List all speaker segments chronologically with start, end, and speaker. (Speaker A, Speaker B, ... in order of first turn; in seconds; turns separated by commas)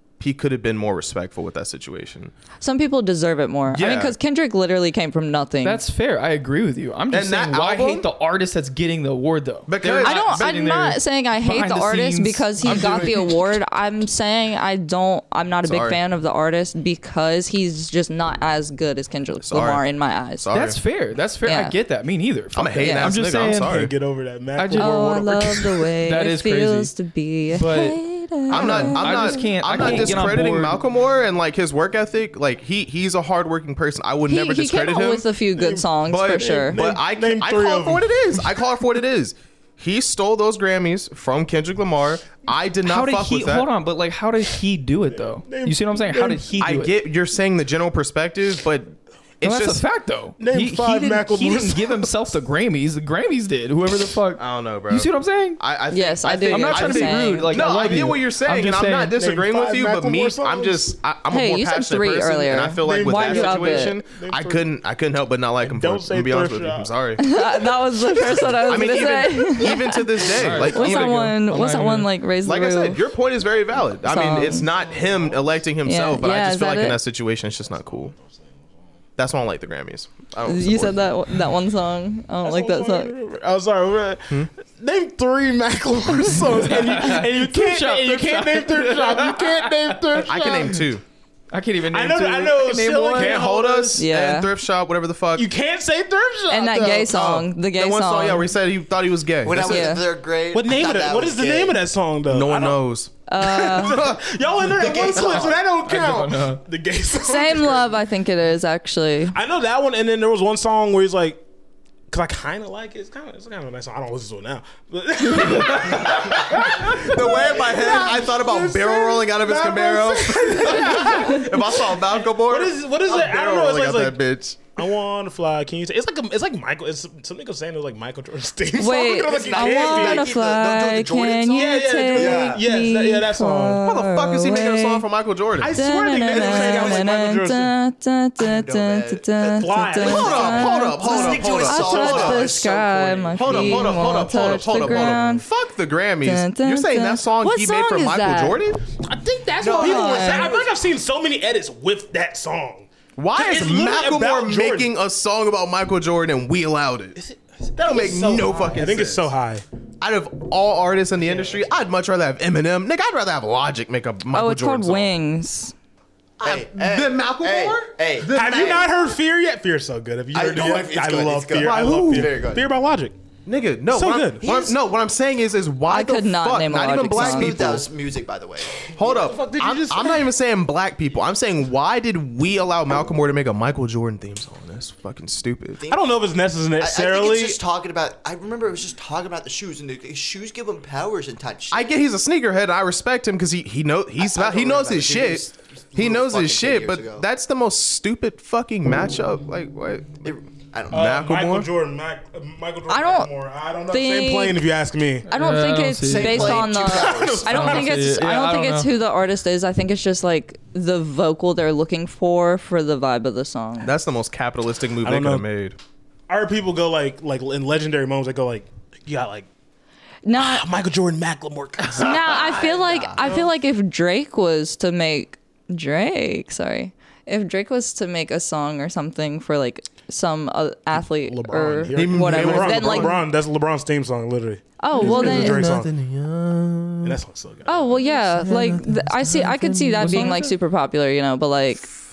Speaker A: 0.2-2.3, Speaker B: 2.6-5.8, Speaker A: 3.7-4.1, Speaker C: 5.6-13.3, Speaker A: 7.1-8.1, Speaker A: 9.7-10.5, Speaker B: 9.9-20.4, Speaker A: 12.6-13.2, Speaker A: 15.6-16.0, Speaker A: 19.4-19.8, Speaker A: 20.4-20.8, Speaker C: 20.5-23.8, Speaker B: 21.4-21.7, Speaker A: 22.5-23.9, Speaker B: 22.8-23.2, Speaker D: 23.2-25.6, Speaker C: 24.6-26.9, Speaker B: 24.8-30.3, Speaker C: 27.5-30.8, Speaker A: 28.5-35.2, Speaker B: 34.3-36.8, Speaker D: 35.5-38.5, Speaker A: 36.1-43.7, Speaker C: 42.8-46.9, Speaker D: 45.3-46.8, Speaker A: 46.6-49.8, Speaker C: 49.4-55.6, Speaker D: 50.4-52.1, Speaker A: 54.4-67.6, Speaker B: 55.9-58.0, Speaker C: 56.5-59.1, Speaker D: 59.1-60.9, Speaker B: 61.3-64.0, Speaker D: 62.8-64.7, Speaker D: 65.6-66.9, Speaker B: 67.2-73.0, Speaker D: 68.3-68.9, Speaker A: 68.3-71.3, Speaker C: 70.3-72.1, Speaker A: 72.4-78.1, Speaker B: 74.0-74.7, Speaker D: 74.7-75.4, Speaker B: 75.8-77.0, Speaker D: 77.9-78.7, Speaker A: 79.2-81.2, Speaker B: 80.5-83.1, Speaker D: 82.4-90.8, Speaker C: 86.4-90.8, Speaker A: 90.2-91.0, Speaker C: 91.5-93.5, Speaker D: 91.9-94.0, Speaker A: 93.2-95.5, Speaker B: 93.9-94.5, Speaker D: 95.3-97.1, Speaker B: 96.5-98.5, Speaker A: 97.0-99.9, Speaker E: 99.4-101.8, Speaker B: 99.6-100.0, Speaker D: 100.5-102.8, Speaker A: 102.3-104.3, Speaker B: 103.3-104.0, Speaker D: 103.4-107.9, Speaker E: 104.6-105.6, Speaker C: 105.8-106.6, Speaker B: 107.1-109.3, Speaker D: 109.3-111.4, Speaker D: 112.1-124.2, Speaker C: 115.3-115.9, Speaker A: 115.9-124.7, Speaker D: 124.8-130.3, Speaker B: 128.7-135.1, Speaker E: 129.3-132.7, Speaker D: 131.5-133.8, Speaker A: 133.8-135.8, Speaker D: 135.6-137.7, Speaker B: 135.7-145.4, Speaker E: 136.3-137.1, Speaker E: 138.4-144.1, Speaker D: 139.5-140.6, Speaker A: 140.0-142.6, Speaker A: 143.3-148.8, Speaker B: 146.2-148.6, Speaker D: 149.0-154.9, Speaker E: 149.6-150.7, Speaker A: 149.6-149.9, Speaker B: 149.8-150.6, Speaker A: 153.2-157.2, Speaker D: 157.2-159.6, Speaker A: 157.8-159.3, Speaker A: 160.0-165.1, Speaker D: 161.2-161.6, Speaker B: 164.3-165.7, Speaker E: 166.4-168.9, Speaker A: 166.4-169.0, Speaker D: 168.3-173.2, Speaker E: 170.3-172.7, Speaker A: 171.6-172.4, Speaker A: 173.4-177.9, Speaker D: 173.9-174.7, Speaker E: 174.4-174.7, Speaker B: 175.9-177.7, Speaker E: 177.1-178.8, Speaker D: 178.8-180.3, Speaker A: 179.0-185.9, Speaker E: 185.8-186.2, Speaker D: 185.9-187.6, Speaker E: 186.8-191.9, Speaker A: 191.7-200.3, Speaker E: 194.2-197.2, Speaker E: 200.2-201.2, Speaker A: 200.9-201.7, Speaker D: 200.9-205.3, Speaker B: 202.9-203.3, Speaker B: 203.9-204.6, Speaker C: 205.3-206.7, Speaker B: 205.3-213.9, Speaker E: 206.0-207.7, Speaker D: 206.7-208.1, Speaker C: 207.5-208.9, Speaker A: 213.8-215.8, Speaker D: 215.0-215.4, Speaker D: 216.3-219.5, Speaker B: 220.2-220.7, Speaker D: 220.4-222.6, Speaker B: 221.9-233.2, Speaker E: 222.8-223.1, Speaker D: 223.2-223.5, Speaker D: 231.0-235.9, Speaker A: 231.9-233.2, Speaker B: 234.8-235.7, Speaker A: 234.9-237.2, Speaker D: 237.0-238.2, Speaker B: 237.7-241.9, Speaker A: 238.3-240.4, Speaker C: 238.4-240.6